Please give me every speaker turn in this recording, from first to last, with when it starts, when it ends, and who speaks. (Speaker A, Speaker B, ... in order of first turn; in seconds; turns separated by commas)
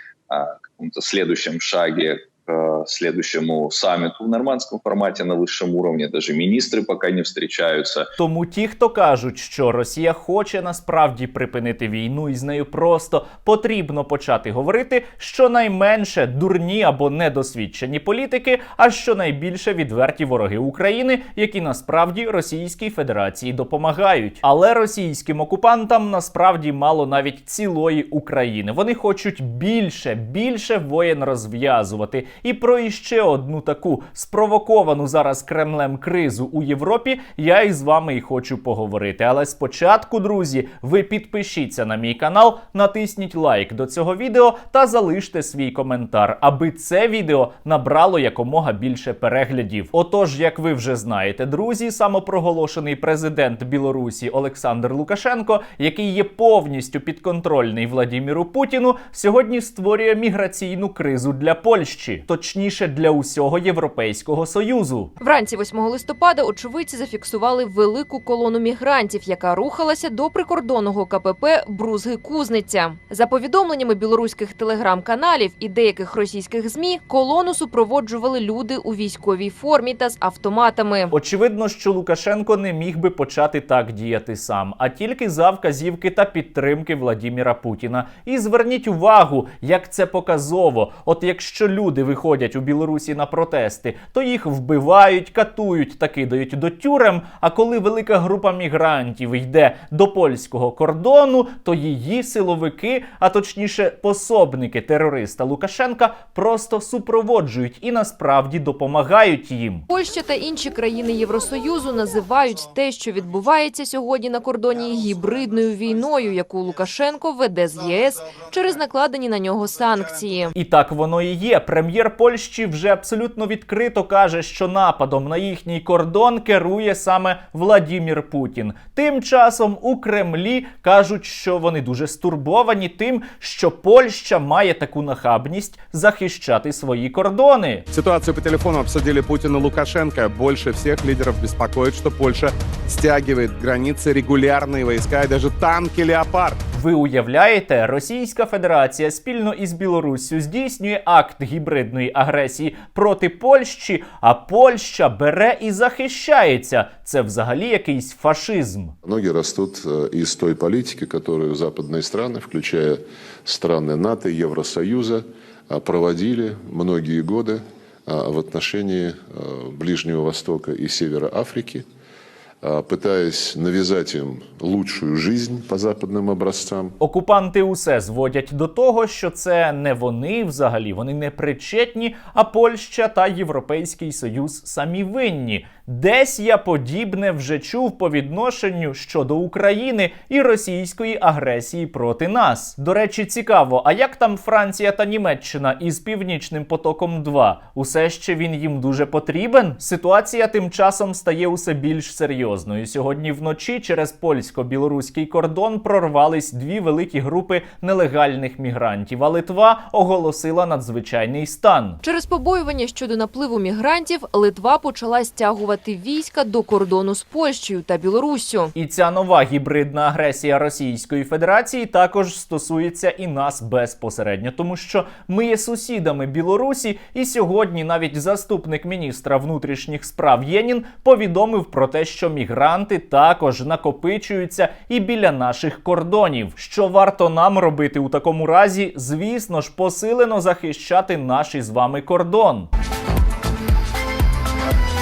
Speaker A: 0.3-8.1, Speaker B: 8.2-65.1, Speaker C: 65.2-81.1, Speaker B: 81.1-109.8, Speaker C: 109.9-120.5, Speaker B: 120.6-137.8, Speaker D: 137.9-146.6, Speaker B: 146.7-158.9, Speaker E: 159.0-171.8, Speaker E: 172.6-176.9, Speaker B: 177.0-212.0, Speaker C: 212.0-218.7, Speaker B: 218.8-242.7